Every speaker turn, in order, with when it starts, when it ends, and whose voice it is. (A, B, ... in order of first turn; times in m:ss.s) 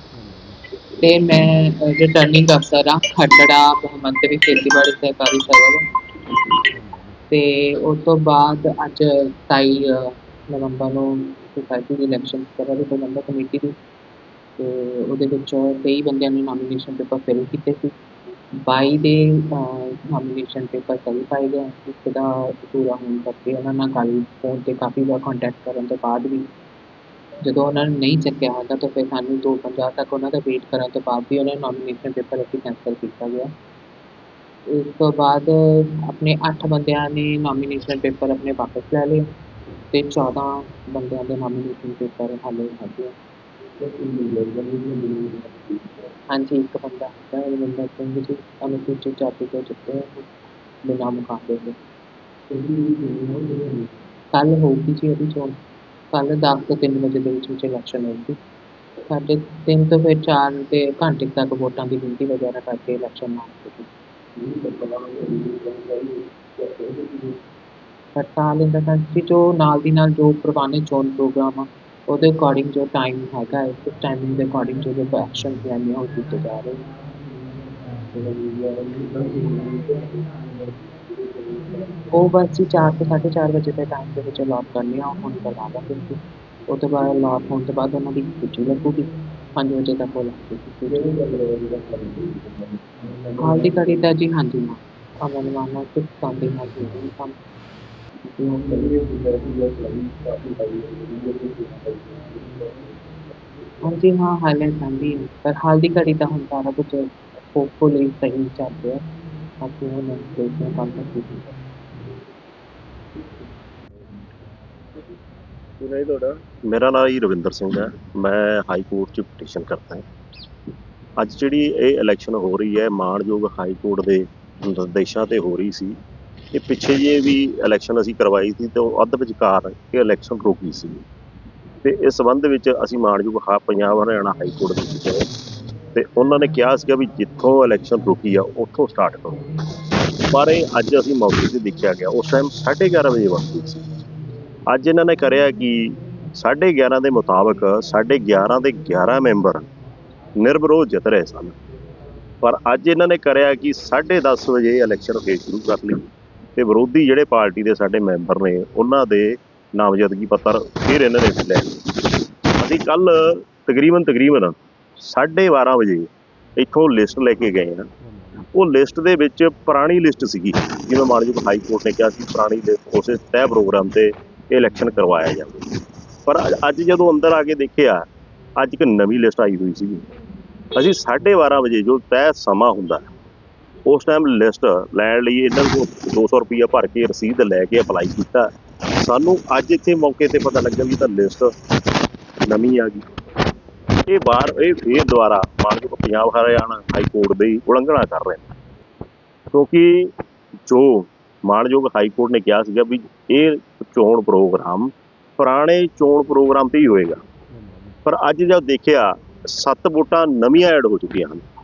0:00.2-0:00.5 A
0:01.0-0:05.8 B
0:06.7-0:07.1 A
0:07.3-0:13.7 B
0:14.6-0:17.9 B
0:18.6-0:26.5 B
0:27.4-0:33.5 B
0:34.7-0:39.2 B
0:39.9-0:43.1 B
0:43.8-0:45.9 A
0:46.3-0:50.3 B
0:50.8-0:51.8 B
0:52.5-0:53.9 A
0:54.3-0:55.6 B
0:56.1-0:58.4 B
0:59.1-1:03.9 B
1:04.4-1:07.4 A
1:08.1-1:16.8 B
1:18.1-1:20.2 A
1:21.1-1:21.9 A
1:22.1-1:31.1 B
1:30.9-1:33.8 A
1:33.4-1:37.3 B
1:38.4-1:38.6 B
1:38.5-1:42.9 A
1:43.8-1:49.0 B
1:49.6-1:51.4 B
1:55.8-1:56.4 A
1:56.7-2:00.0 C
2:01.2-2:06.0 C
2:06.5-2:11.0 C
2:11.8-2:15.3 C
2:15.9-2:19.4 C
2:20.3-2:23.8 C
2:24.7-2:29.7 C
2:30.4-2:31.5 C
2:32.4-2:42.0 C
2:42.6-2:47.9 C
2:48.5-2:58.0 C
2:58.6-3:00.1 C
3:00.7-3:03.1 C
3:03.9-3:08.5 C
3:09.0-3:11.5 C
3:12.5-3:13.0 C
3:14.1-3:18.4 C
3:19.5-3:20.1 C
3:20.7-3:27.2 C
3:27.6-3:27.9 A
3:28.0-3:31.4 C